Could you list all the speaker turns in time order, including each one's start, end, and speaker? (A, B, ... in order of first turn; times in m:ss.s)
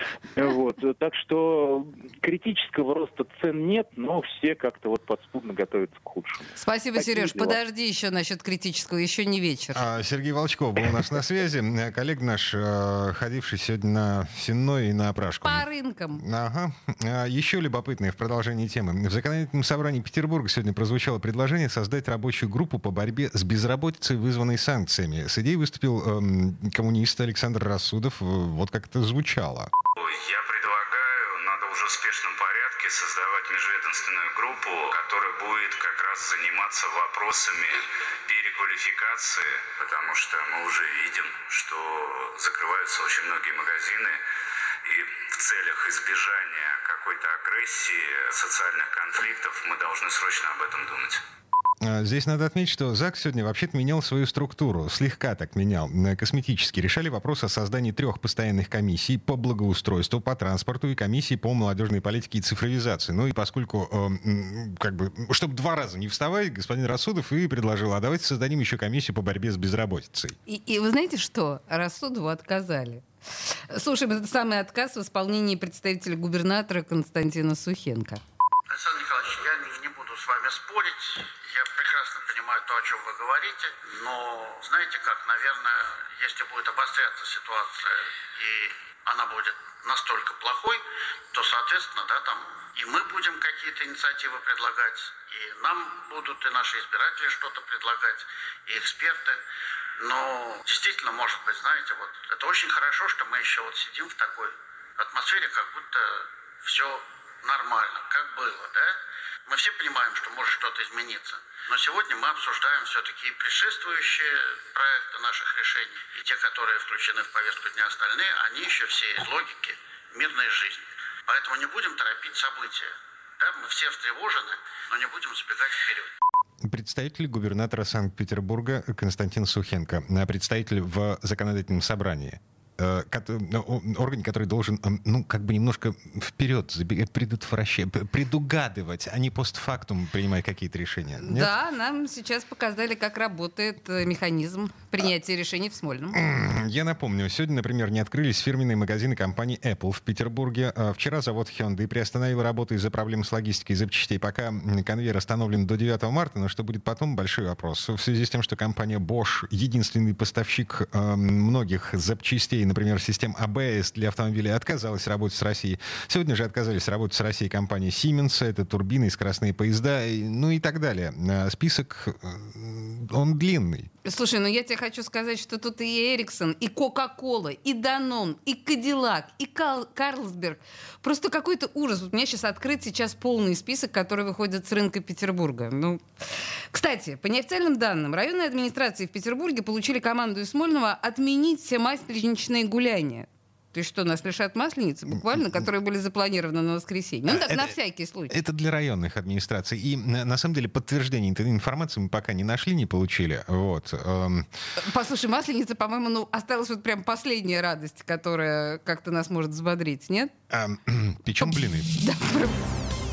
0:00.3-0:07.6 A
0:06.6-0:09.8 B
0:09.7-0:15.6 C
0:15.4-0:16.2 B
0:16.2-0:29.7 C
0:30.0-0:44.2 D
0:44.8-0:51.2 D
0:51.8-1:10.3 C
1:10.4-1:18.2 B
1:18.7-1:30.8 E
1:31.3-1:39.4 E
1:40.0-1:49.0 E
1:49.5-2:06.1 E
2:06.6-2:21.5 C
2:21.2-2:26.2 B
2:26.1-2:53.9 C
2:54.0-3:06.0 B
3:06.7-3:18.3 B
3:17.3-3:17.7 C
3:18.3-3:24.5 C
3:24.8-3:30.3 B
3:30.5-3:31.9 C
3:31.4-3:32.6 B